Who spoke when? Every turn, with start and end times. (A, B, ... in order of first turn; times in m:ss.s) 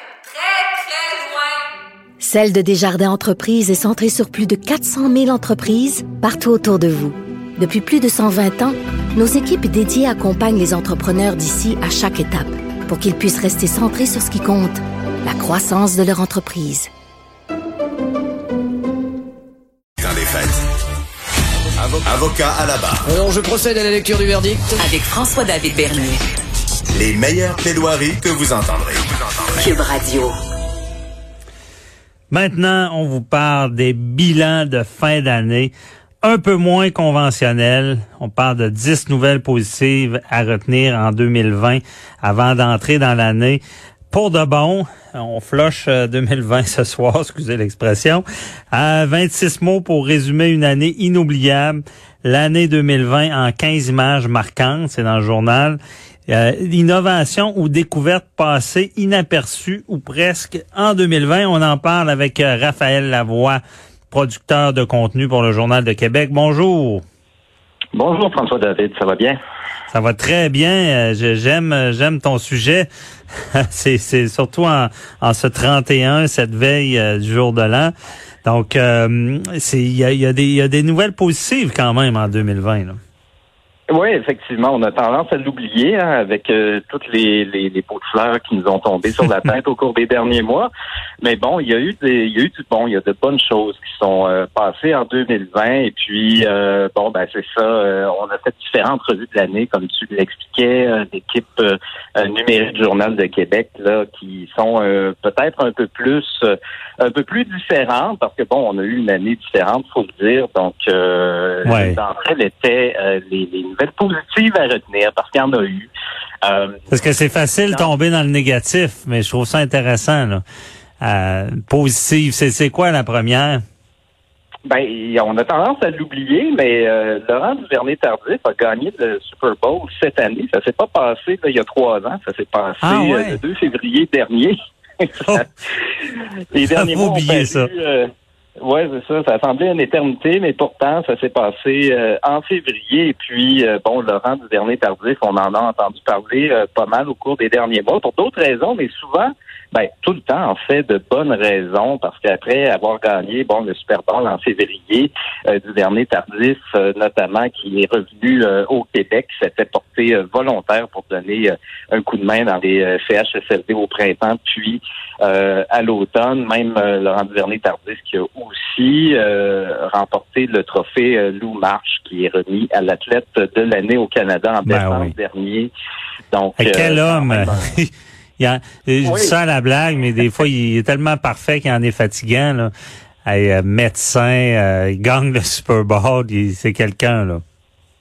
0:00.4-0:01.3 A
0:00.6-0:01.0 B
0:02.2-0:16.9 C
0:20.0-0:20.6 D
0:21.8-0:23.1 D
0:23.0-0:24.8 B
0:24.8-0:26.2 A
0:26.9-0:29.6 D
0:29.6-0:30.4 A
0:32.3-1:07.0 E
1:08.0-1:09.4 F
1:09.9-1:23.0 E
1:23.9-1:30.7 F
1:31.2-1:55.9 F
1:51.6-1:52.0 E
1:56.4-1:56.8 F
1:56.9-2:00.4 E
2:01.0-2:03.6 E
2:04.7-2:15.4 F
2:12.8-2:13.4 E
2:16.5-2:55.7 F
2:16.7-2:17.7 E
2:54.6-2:55.1 E
2:56.3-2:57.7 F
2:56.6-3:02.7 E
2:59.0-2:59.4 F
3:03.2-3:07.4 E